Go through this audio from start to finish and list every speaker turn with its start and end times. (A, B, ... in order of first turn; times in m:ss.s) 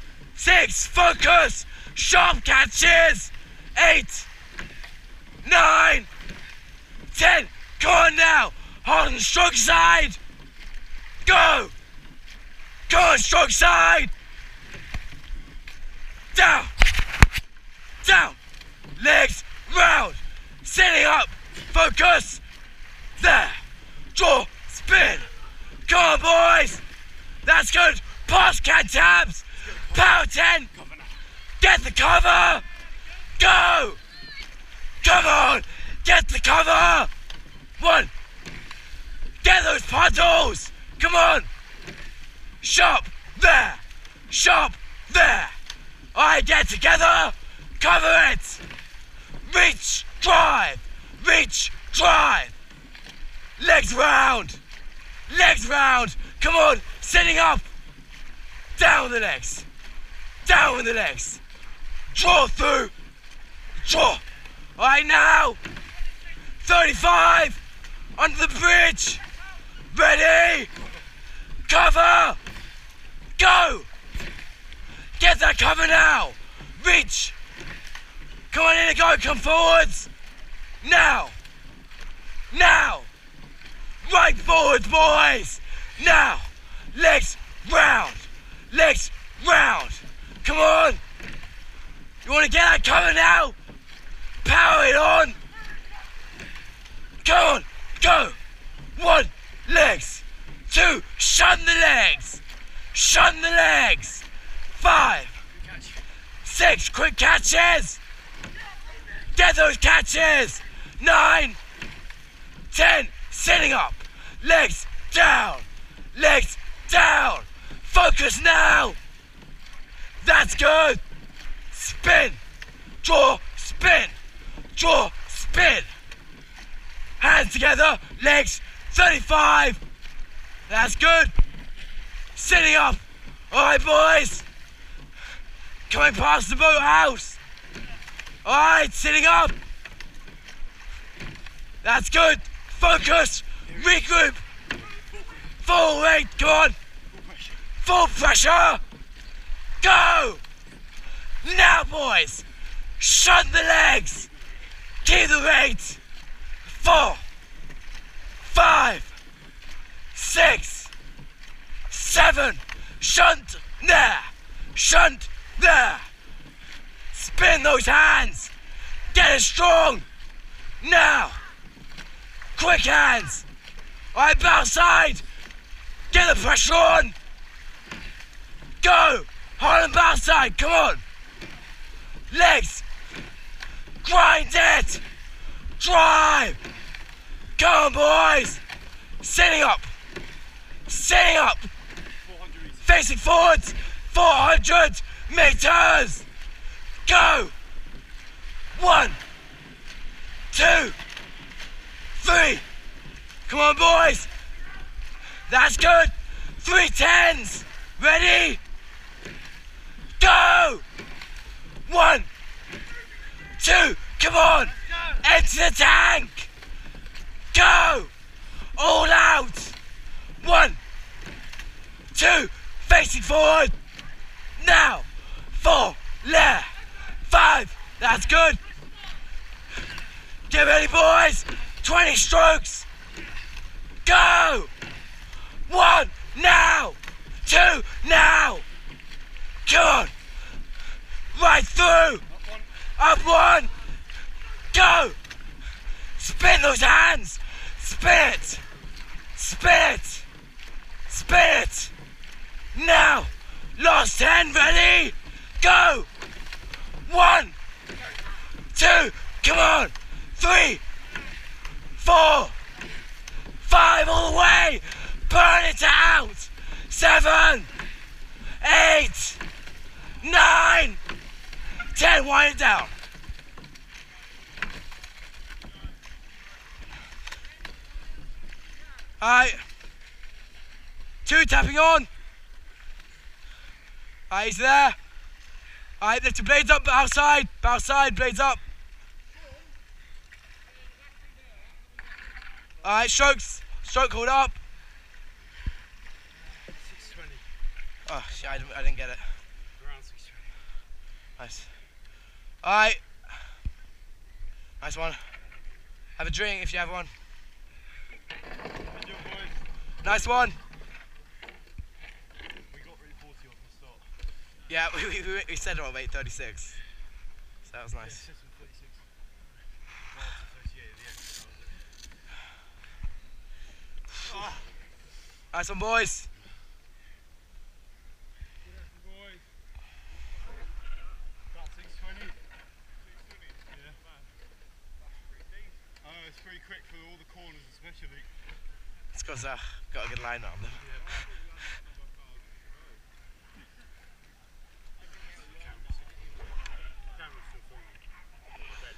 0:00.4-0:04.3 A
0:05.4-0:06.1 A
0:07.1-0:10.2 A
0:11.2-0:11.7 A
0:12.9-0:14.1 A
0:16.3-0:16.7 A
0:18.0-0:18.4 A
0:19.0-0:22.4 A
0:23.2-0:23.6 A
0:24.2-0:25.3 A
0:25.9-0:26.8 A
0:27.4-0:30.7 A
0:29.7-0:30.2 B
0:30.7-0:31.2 B
0:31.6-0:32.7 A
0:33.4-0:34.0 A
0:35.0-0:37.1 A
0:37.8-0:38.1 A
0:39.4-0:41.5 A
0:42.6-0:45.6 A
0:46.1-0:48.6 A
0:49.4-0:52.5 A
0:53.6-0:54.6 A
0:55.3-0:57.7 A
0:58.8-0:59.7 A
1:00.4-1:01.4 A
1:02.1-1:02.9 A
1:03.8-1:04.2 A
1:04.8-1:05.6 A
1:06.6-1:07.6 A
1:08.2-1:09.2 A
1:09.9-1:10.7 A
1:11.7-1:12.4 A
1:13.4-1:13.9 A
1:15.2-1:17.4 A
1:18.5-1:20.1 A
1:20.8-1:21.4 A
1:22.5-1:23.1 A
1:24.0-1:31.0 A
1:32.2-1:33.6 A
1:34.4-1:35.4 A
1:37.2-1:38.4 A
1:39.0-1:42.4 A
1:42.9-1:45.4 A
1:45.5-1:46.0 B
1:46.4-1:48.0 A
1:49.3-1:51.6 A
1:52.7-1:59.0 A
2:00.2-2:01.0 A
2:01.7-2:02.4 A
2:03.0-2:04.2 A
2:04.8-2:05.9 A
2:07.2-2:09.8 A
2:10.7-2:11.3 A
2:12.4-2:14.5 A
2:15.9-2:17.4 A
2:18.4-2:19.6 A
2:21.8-2:24.4 A
2:23.7-2:24.0 B
2:25.1-2:25.6 B
2:25.6-2:26.8 A
2:27.1-2:27.7 B
2:27.8-2:28.8 A
2:29.8-2:30.4 A
2:31.4-2:32.4 A
2:33.0-2:34.3 A
2:35.0-2:36.0 A
2:36.7-2:37.2 A
2:38.4-2:39.1 A
2:40.1-2:40.9 A
2:41.9-2:46.1 A
2:47.1-2:48.5 A
2:49.1-2:50.1 A
2:50.8-2:51.4 A
2:52.6-2:53.4 A
2:54.1-2:55.2 A
2:56.1-2:57.2 A
2:58.8-3:01.0 A
3:02.3-3:02.8 A
3:04.0-3:05.0 A
3:05.8-3:06.6 A
3:07.6-3:08.6 A
3:09.2-3:09.9 A
3:10.9-3:11.7 A
3:12.1-3:13.0 B
3:12.8-3:16.2 A
3:17.1-3:17.5 A
3:18.8-3:19.2 A
3:20.5-3:21.0 A
3:22.2-3:22.6 A
3:23.5-3:24.3 A
3:25.5-3:28.6 A
3:30.2-3:30.8 A
3:31.9-3:32.3 A
3:33.6-3:36.5 A
3:34.8-3:35.2 B
3:37.5-3:38.1 A
3:38.8-3:39.8 A
3:40.4-3:40.8 A
3:42.1-3:43.8 A
3:44.6-3:48.6 A
3:50.5-3:52.9 A
3:54.0-3:54.7 A
3:55.7-3:58.6 A
3:59.7-4:00.1 A
4:01.3-4:02.2 A
4:02.3-4:02.7 B
4:03.0-4:03.7 A
4:04.7-4:05.2 A
4:06.2-4:08.6 A
4:09.4-4:10.3 A
4:11.1-4:11.9 A
4:12.7-4:16.1 A
4:17.1-4:17.6 A
4:18.7-4:20.8 A
4:22.0-4:22.6 A
4:23.6-4:27.7 A
4:28.6-4:29.4 A
4:30.2-4:31.0 A
4:31.9-4:32.9 A
4:39.2-4:39.6 A
4:41.2-4:42.1 A
4:44.3-4:45.0 A
4:46.0-4:48.6 A
4:52.8-4:54.6 A
4:56.5-4:57.5 B
4:58.1-4:59.3 A
4:58.3-4:58.8 B
4:59.8-5:00.6 B
5:01.4-5:01.7 A
5:02.6-5:03.2 A
5:04.8-5:05.2 A
5:06.2-5:07.1 A
5:08.9-5:10.5 B
5:10.0-5:10.6 A
5:12.7-5:14.1 B
5:14.7-5:16.8 A
5:17.7-5:18.2 A
5:18.0-5:19.1 B
5:20.0-5:21.8 B
5:24.2-5:24.7 B
5:25.5-5:26.3 A
5:28.6-5:29.5 B
5:31.5-5:32.4 B
5:33.7-5:34.0 B
5:36.0-5:38.3 B
5:39.1-5:40.9 A
5:40.8-5:41.8 B
5:45.3-5:46.2 B
5:47.1-5:48.0 B